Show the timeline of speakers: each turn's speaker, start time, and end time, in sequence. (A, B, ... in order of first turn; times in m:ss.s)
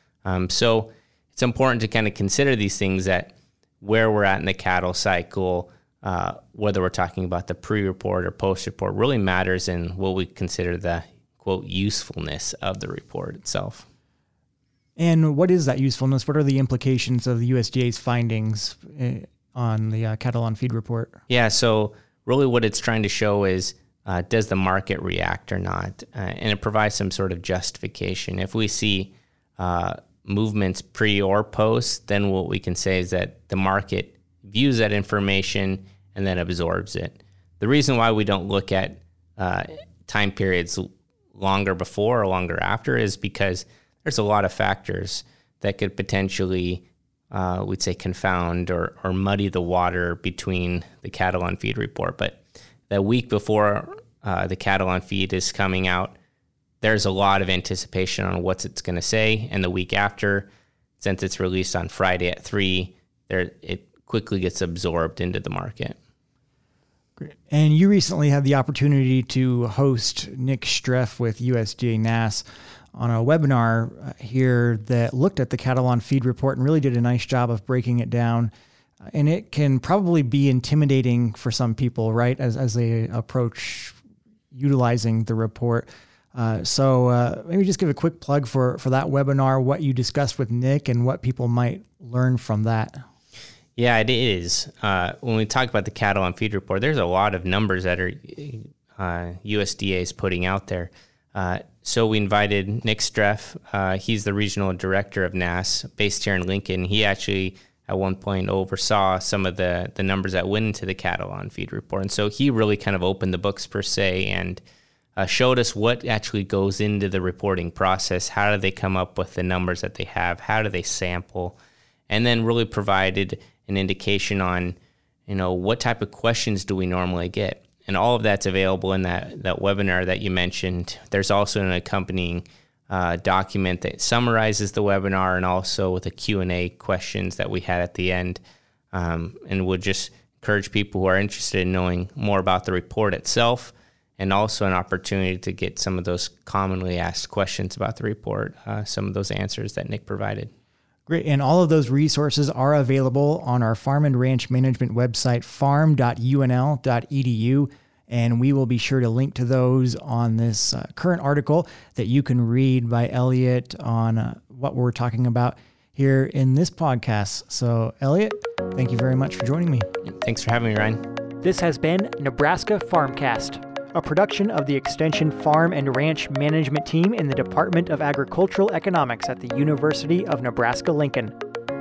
0:00.2-0:13.8 A
0:15.0-0:21.2 B
0:21.3-0:56.1 A
0:56.8-1:06.0 A
1:07.2-1:12.4 B
1:12.9-1:18.5 B
1:19.1-1:24.0 B
1:24.5-1:33.0 B
1:33.8-1:54.6 A
1:55.2-2:01.6 A
2:02.1-2:04.7 A
2:05.3-2:18.4 A
2:18.9-2:30.5 A
2:31.1-2:49.9 B
2:50.0-2:51.0 A
2:51.4-3:01.3 B